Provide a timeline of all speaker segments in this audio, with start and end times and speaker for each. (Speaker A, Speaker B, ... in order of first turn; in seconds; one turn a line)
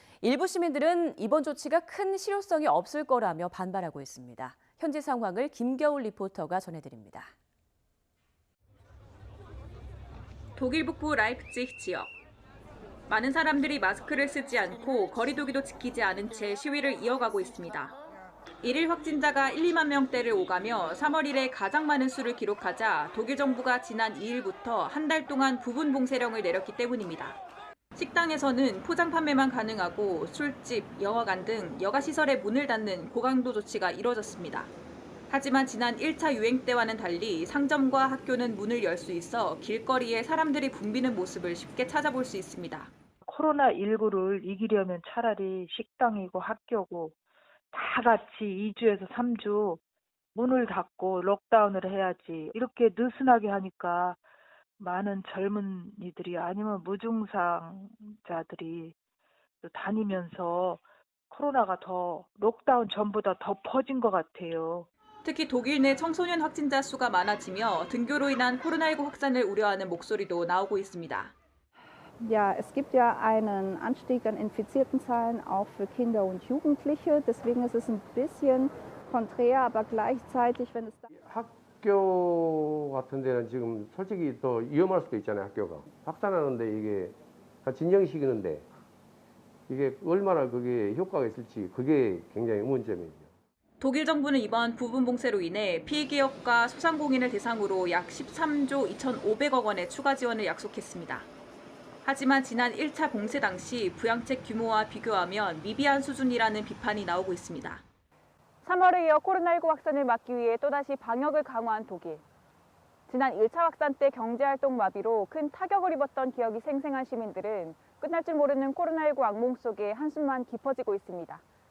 Speaker A: 0.2-7.3
Speaker B: 10.6-12.1
Speaker B: 13.1-17.9
Speaker B: 18.6-27.4
Speaker B: 27.9-34.7
Speaker B: 35.3-42.9
Speaker C: 43.2-47.1
Speaker C: 47.7-49.8
Speaker C: 50.3-54.2
Speaker C: 54.8-59.0
Speaker C: 59.6-64.9
Speaker B: 65.2-71.3
Speaker D: 72.2-81.1
Speaker E: 81.2-88.7
Speaker E: 89.7-93.3
Speaker B: 93.8-101.3
Speaker B: 102.0-107.8
Speaker F: 108.7-112.2
Speaker B: 109.7-112.1
Speaker B: 113.1-115.5
Speaker F: 113.1-121.4
Speaker B: 116.5-121.4